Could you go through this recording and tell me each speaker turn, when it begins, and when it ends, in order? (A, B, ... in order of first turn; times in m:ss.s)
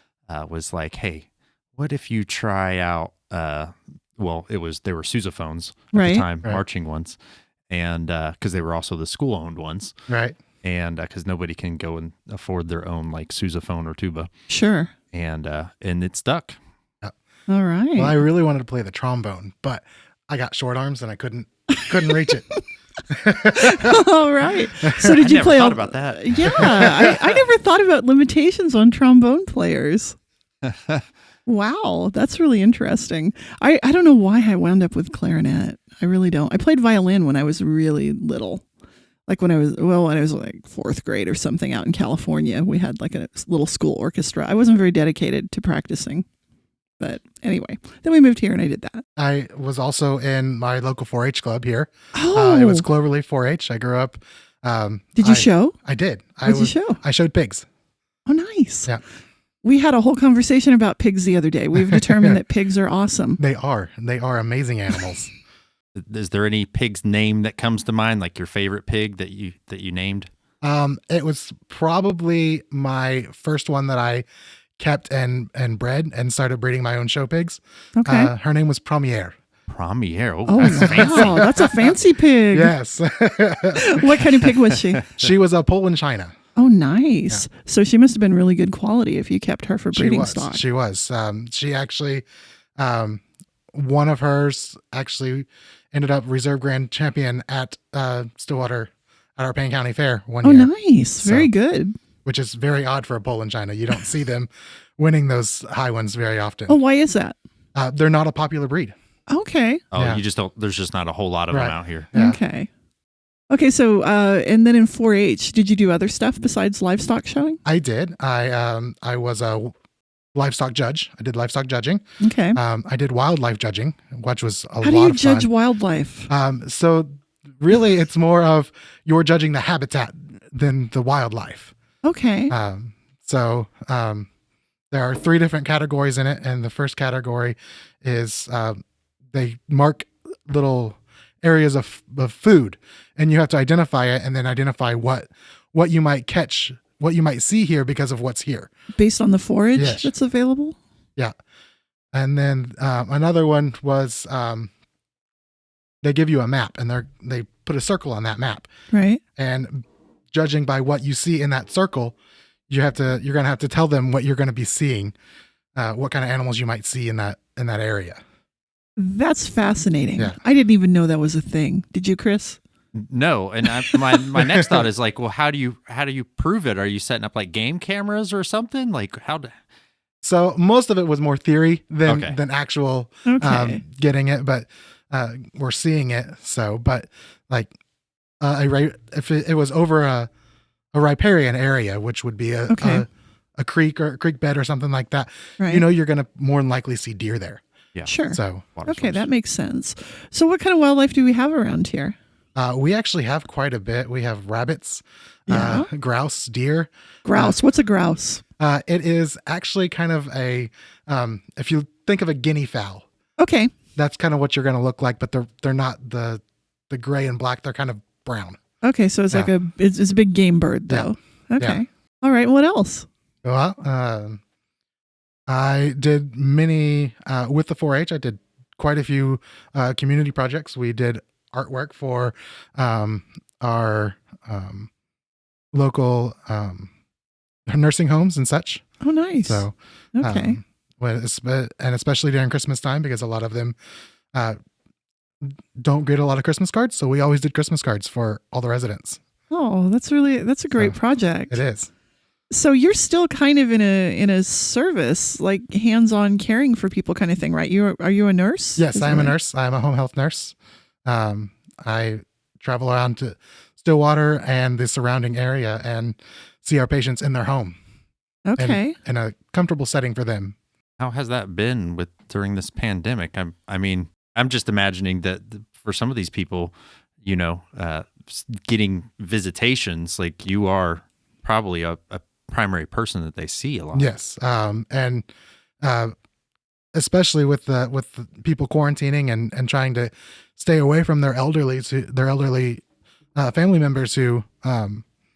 0:00.3-0:01.3 A
0:01.8-0:07.2 A
0:05.9-0:06.2 B
0:07.7-0:09.9 A
0:10.1-0:10.4 C
0:10.6-0:14.3 A
0:14.5-0:14.9 B
0:15.1-0:16.6 A
0:17.5-0:18.2 B
0:18.0-0:22.5 C
0:21.9-0:22.4 B
0:23.1-0:24.0 C
0:23.5-0:30.2 B
0:25.0-0:25.2 C
0:25.0-0:27.1 A
0:26.4-0:27.1 C
0:30.6-0:31.0 A
0:31.5-0:38.6 B
0:39.3-0:46.2 B
0:47.0-0:49.0 B
0:49.2-0:57.6 C
0:52.1-0:52.9 B
0:55.2-0:55.8 B
0:56.4-0:57.0 B
0:58.3-0:58.9 B
0:59.6-1:03.4 B
1:01.8-1:02.4 C
1:03.4-1:05.3 C
1:06.0-1:10.3 A
1:10.6-1:14.2 C
1:14.8-1:19.3 C
1:18.0-1:18.3 B
1:19.7-1:21.7 A
1:20.5-1:22.7 B
1:20.6-1:21.7 C
1:22.5-1:24.6 C
1:23.8-1:25.1 B
1:25.1-1:26.3 C
1:26.6-1:30.6 B
1:29.9-1:32.3 C
1:32.8-1:41.5 C
1:40.4-1:42.0 B
1:42.2-1:46.8 C
1:46.7-1:47.4 B
1:47.8-1:48.9 C
1:49.3-1:49.8 B
1:49.9-1:52.1 A
1:49.9-1:50.2 C
1:51.5-1:52.4 C
1:52.1-1:52.7 B
1:53.5-1:57.6 B
1:57.6-1:59.7 C
2:00.3-2:02.0 C
2:02.2-2:02.6 B
2:02.5-2:05.5 C
2:04.8-2:06.3 B
2:06.3-2:11.7 C
2:12.0-2:12.5 B
2:12.5-2:14.3 C
2:14.9-2:18.8 C
2:19.3-2:28.7 C
2:29.0-2:30.8 B
2:29.8-2:30.1 C
2:32.1-2:34.7 C
2:36.0-2:38.7 C
2:38.9-2:39.2 B
2:39.4-2:42.2 C
2:42.7-2:45.1 C
2:45.8-2:48.2 C
2:49.0-2:52.6 B
2:52.9-2:59.5 A
2:54.4-2:54.8 C
3:00.2-3:07.7 C
3:02.0-3:02.4 A
3:03.3-3:03.8 B
3:08.4-3:10.3 C
3:10.9-3:17.6 C
3:12.7-3:13.0 B
3:18.0-3:22.2 B
3:18.3-3:18.8 C
3:18.8-3:19.2 A
3:22.6-3:27.6 C
3:25.5-3:25.9 B
3:27.2-3:28.4 B
3:28.6-3:33.1 C
3:33.4-3:33.7 B
3:34.0-3:38.6 C
3:38.8-3:43.1 B
3:40.9-3:41.8 C
3:43.4-3:44.4 C
3:45.5-3:54.9 C
3:55.7-3:56.9 C
3:57.7-3:58.8 C
3:59.0-4:00.6 B
3:59.5-4:03.8 C
4:05.8-4:09.2 C
4:09.5-4:11.6 B
4:11.5-4:11.9 C
4:12.5-4:19.4 B
4:18.8-4:20.6 C
4:21.1-4:27.8 C
4:28.5-4:29.0 B
4:28.6-4:30.6 C
4:31.0-4:44.1 A
4:43.9-4:45.3 C
4:45.8-4:46.1 C
4:46.9-4:52.8 C
4:53.4-4:55.0 C